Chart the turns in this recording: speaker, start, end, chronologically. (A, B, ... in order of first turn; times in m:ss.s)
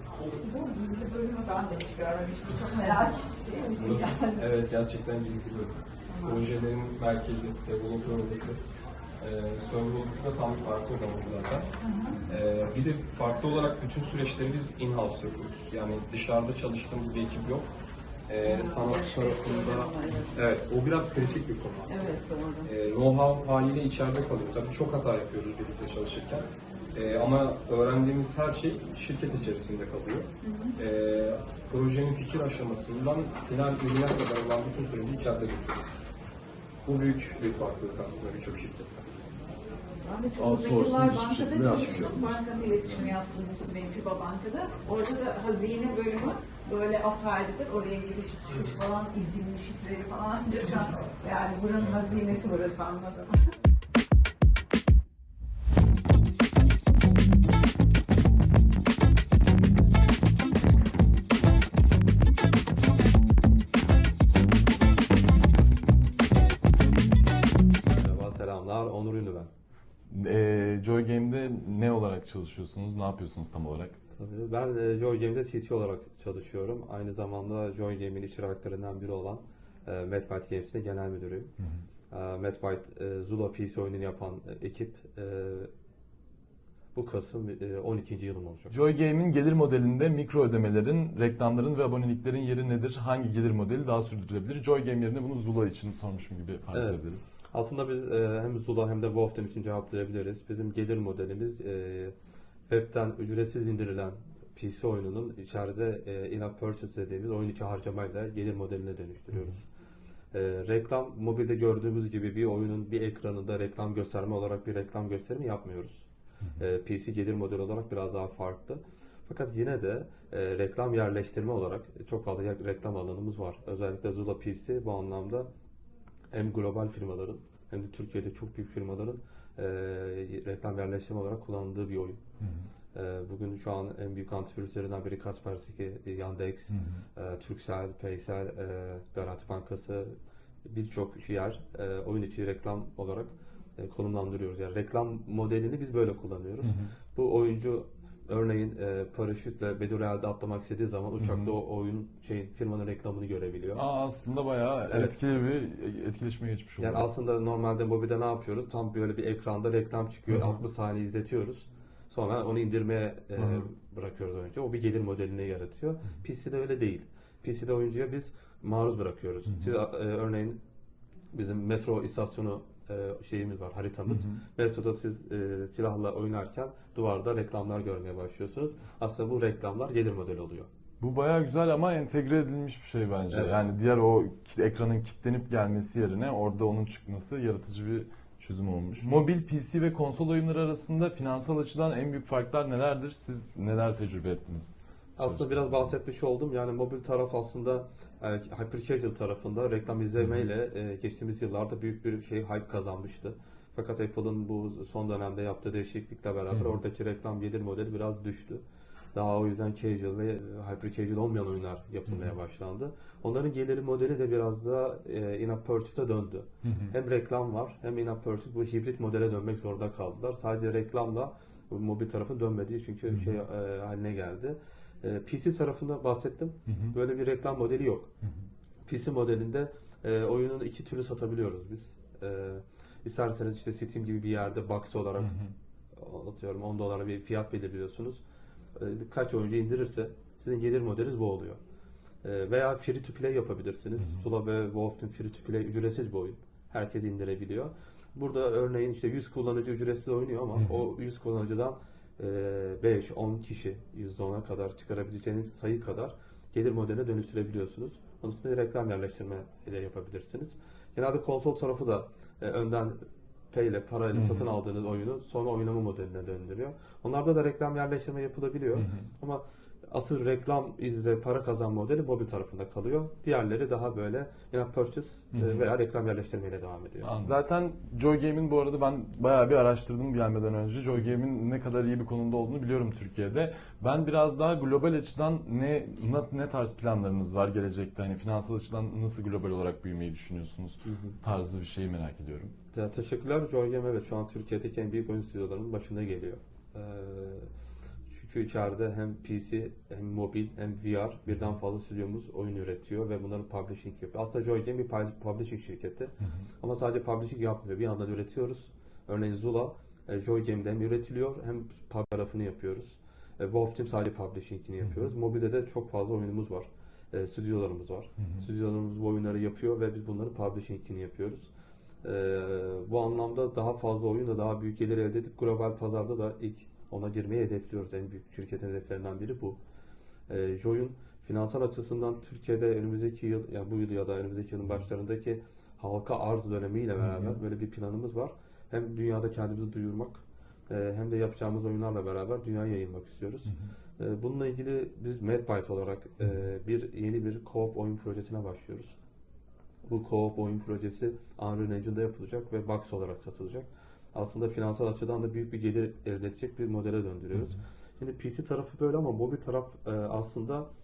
0:00.2-0:04.4 A
0:03.8-0:08.6 B
0:06.1-0:06.4 A
0:09.2-0:11.7 B
0:11.8-0:12.2 A
0:12.3-0:17.7 B
0:18.3-0:22.1 B
0:18.4-0:20.4 A
0:21.9-0:22.7 A
0:22.6-0:36.0 B
0:30.4-0:30.8 A
0:36.9-0:39.1 B
0:40.0-0:53.4 A
0:40.4-0:42.4 C
1:08.0-1:09.5 D
1:10.1-1:14.0 C
1:14.2-1:21.5 D
1:22.1-1:25.7 D
1:26.9-1:28.8 D
1:28.7-1:37.3 C
1:36.7-1:42.1 D
1:42.7-1:49.6 D
1:50.3-1:56.1 D
1:56.6-2:05.5 D
2:06.3-2:12.2 D
2:12.4-2:12.7 C
2:12.9-2:33.8 D
2:16.7-2:17.0 C
2:26.6-2:26.9 C
2:31.2-2:31.6 C
2:33.8-2:37.0 C
2:36.8-2:50.6 D
2:40.3-2:40.6 C
2:43.4-2:43.7 C
2:51.3-3:00.7 D
2:54.1-2:54.4 C
3:01.0-3:15.9 C
3:03.3-3:03.6 D
3:15.2-3:28.6 D
3:29.1-3:48.1 D
3:36.6-3:36.9 C
3:46.7-3:47.0 C
3:48.9-3:55.4 D
3:55.2-3:55.5 C
3:56.0-3:58.2 D
3:58.8-4:01.6 D
4:02.2-4:23.0 D
4:23.5-4:37.3 D
4:24.2-4:24.5 C
4:28.8-4:29.1 C
4:35.3-4:35.6 C
4:37.0-4:52.6 C
4:50.8-4:51.2 D
4:52.7-4:57.5 D
4:58.1-5:21.5 D
5:22.0-5:29.6 D
5:30.3-5:49.0 D
5:37.0-5:37.4 C
5:49.9-6:00.7 D